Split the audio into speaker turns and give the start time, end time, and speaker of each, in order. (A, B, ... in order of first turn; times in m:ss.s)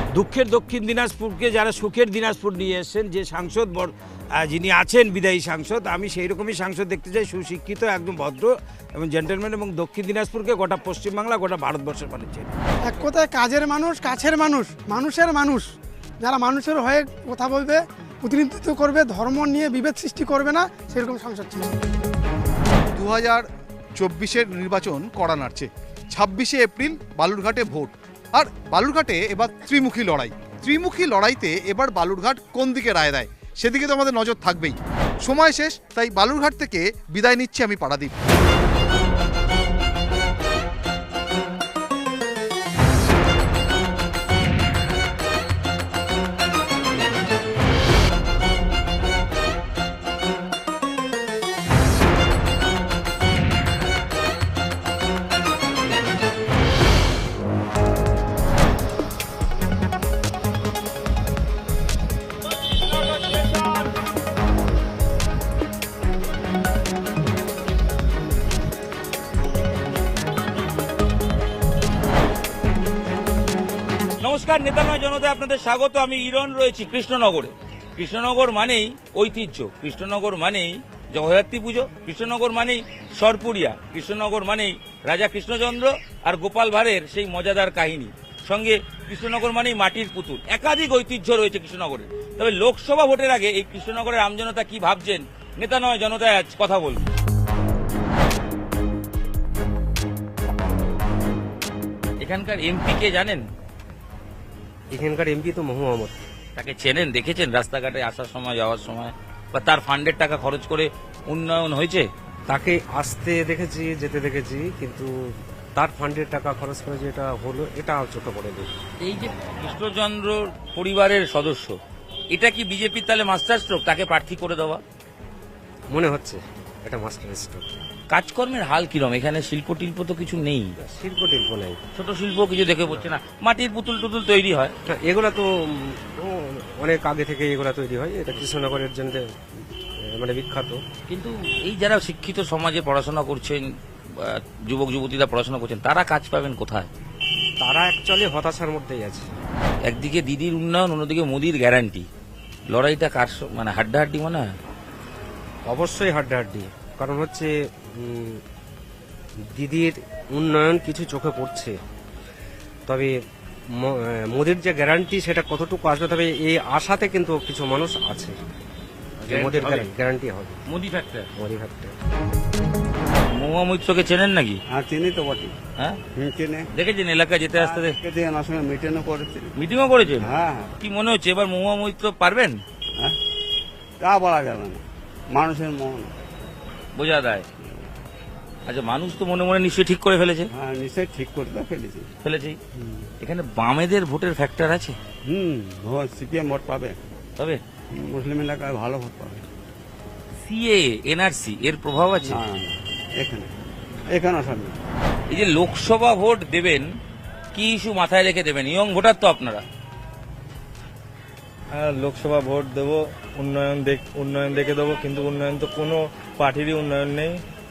0:00.2-0:12.7 A
0:12.8-0:15.7 B
0:16.2-0:21.7 B
0:22.9-0:38.2 C
1:14.2-1:37.1 D
1:42.2-1:43.4 D
1:44.9-1:46.2 E
1:46.6-1:52.1 D
1:52.5-1:55.1 E
1:55.8-1:58.8 E
1:59.0-2:01.8 D
2:02.3-2:04.8 D
2:05.9-2:07.8 E
2:08.1-2:10.8 D
2:10.8-2:11.8 E
2:12.0-2:14.7 D
2:14.9-2:19.3 E
2:20.1-2:20.8 E
2:21.1-2:26.9 D
2:27.6-2:29.3 E
2:29.9-2:32.1 D
2:32.7-2:34.5 D
2:35.7-2:38.4 E
2:39.6-2:41.8 E
2:42.9-2:43.1 E
2:43.8-2:48.4 E
2:49.2-2:50.6 E
2:49.3-2:49.9 D
2:50.7-2:51.3 D
2:51.4-2:51.9 E
2:53.3-2:54.6 D
2:54.8-2:55.5 F
2:56.2-2:56.6 F
2:56.7-2:58.0 D
2:57.6-2:59.5 F
2:59.6-3:02.6 D
3:00.2-3:00.7 F
3:04.0-3:06.1 F
3:07.0-3:07.5 D
3:08.7-3:10.5 D
3:10.5-3:12.1 F
3:12.2-3:12.6 D
3:13.2-3:15.0 D
3:15.3-3:17.0 F
3:18.0-3:19.4 F
3:20.4-3:22.4 D
3:22.4-3:23.5 F
3:24.1-3:24.8 F
3:25.3-3:26.8 D
3:27.5-3:29.6 D
3:31.8-3:37.4 G